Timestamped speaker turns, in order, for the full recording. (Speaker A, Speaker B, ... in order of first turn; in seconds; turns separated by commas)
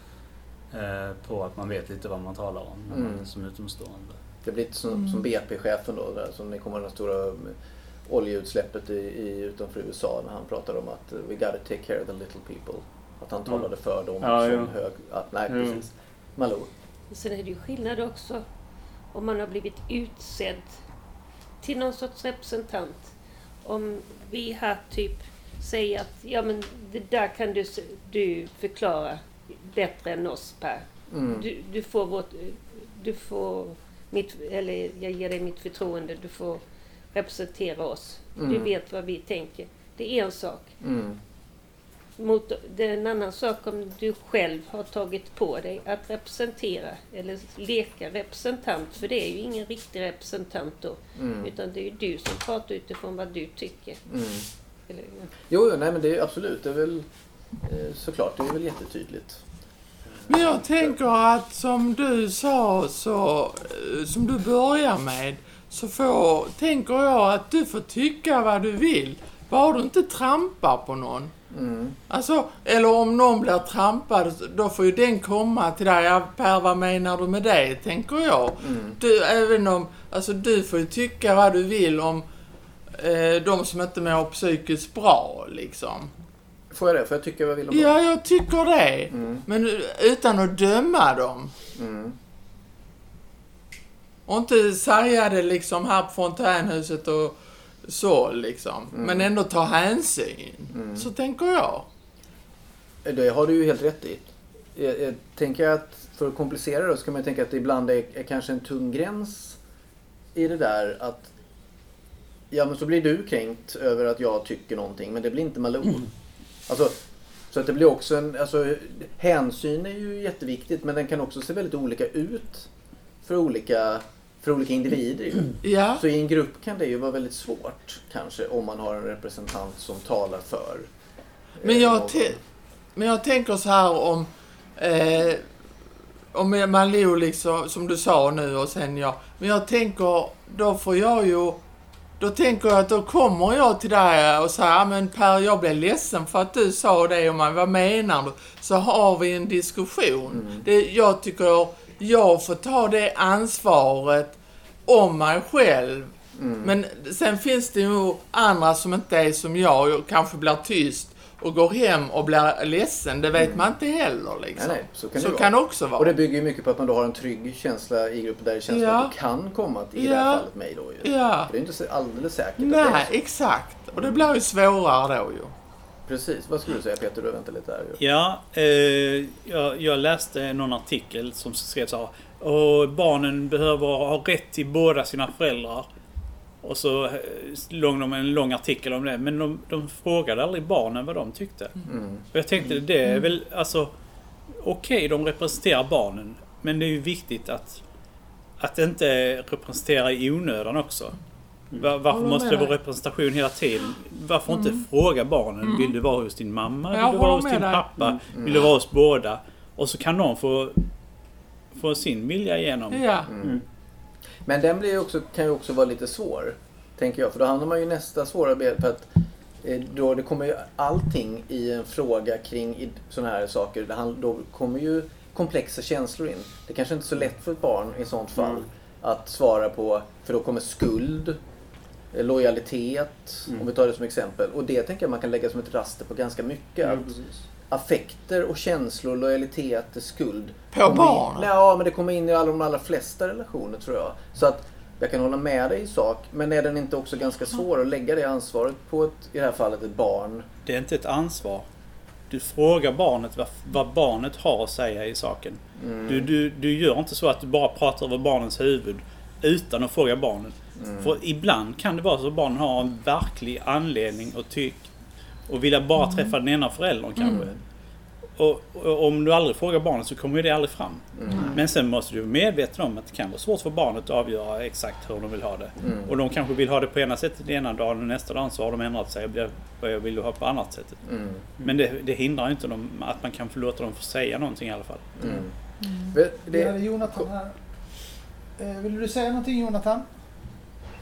Speaker A: 0.7-4.2, Speaker B: 2.9-3.3, Speaker B: 4.4-7.6, Speaker B: 8.1-16.7, Speaker A: 14.2-14.7, Speaker A: 15.5-15.8, Speaker C: 17.1-18.4, Speaker C: 19.1-20.8, Speaker C: 21.6-23.1, Speaker C: 23.6-36.6, Speaker B: 31.1-31.5, Speaker C: 37.1-40.7, Speaker B: 38.4-38.7, Speaker B: 40.8-41.2, Speaker C: 42.2-54.0, Speaker B: 51.1-51.5, Speaker B: 54.1-54.5, Speaker C: 54.9-55.3, Speaker B: 55.5-57.1, Speaker B: 57.6-59.4, Speaker B: 60.1-61.0, Speaker D: 60.3-71.3, Speaker B: 71.5-72.0, Speaker D: 72.1-82.2, Speaker B: 78.6-79.0, Speaker D: 83.0-86.1, Speaker B: 86.7-88.0, Speaker D: 87.7-91.5, Speaker B: 89.1-89.4, Speaker B: 91.8-92.1, Speaker D: 94.3-101.9, Speaker B: 98.9-99.3, Speaker B: 100.7-101.1, Speaker B: 103.0-109.6, Speaker B: 110.3-111.3, Speaker B: 112.5-116.1, Speaker B: 116.7-117.0, Speaker B: 117.5-122.7, Speaker B: 123.2-130.9, Speaker D: 125.6-126.0, Speaker B: 131.6-132.4, Speaker D: 131.6-132.4, Speaker D: 132.9-135.5, Speaker D: 136.3-141.6, Speaker D: 142.2-166.2, Speaker B: 150.3-150.7, Speaker B: 156.4-156.7, Speaker B: 163.4-163.7, Speaker B: 164.6-173.1, Speaker D: 168.7-169.1, Speaker D: 170.0-170.5, Speaker D: 171.0-171.5, Speaker D: 172.6-175.5, Speaker B: 176.1-178.0, Speaker E: 178.0-185.9, Speaker E: 186.6-193.9, Speaker B: 191.9-192.2, Speaker E: 194.6-197.8, Speaker E: 198.6-201.2, Speaker E: 201.8-210.8, Speaker D: 202.1-202.8, Speaker D: 204.5-204.8, Speaker D: 205.6-205.9, Speaker D: 206.9-207.9, Speaker B: 208.3-208.7, Speaker E: 211.7-213.1, Speaker D: 212.9-213.3, Speaker B: 213.3-213.6, Speaker B: 214.5-219.1, Speaker B: 219.6-231.4, Speaker A: 228.4-228.7, Speaker B: 232.1-237.1, Speaker A: 236.8-237.4, Speaker B: 237.7-250.5, Speaker D: 240.7-241.5, Speaker E: 250.7-251.7, Speaker E: 252.3-264.9, Speaker B: 255.8-256.3, Speaker B: 260.8-261.2, Speaker E: 265.5-267.5, Speaker D: 267.2-267.5, Speaker E: 268.4-281.0, Speaker B: 271.1-271.6, Speaker B: 275.8-276.1, Speaker B: 281.1-281.5, Speaker E: 281.6-285.2, Speaker B: 285.2-285.6, Speaker F: 285.8-287.6, Speaker B: 286.1-287.3, Speaker F: 288.6-290.1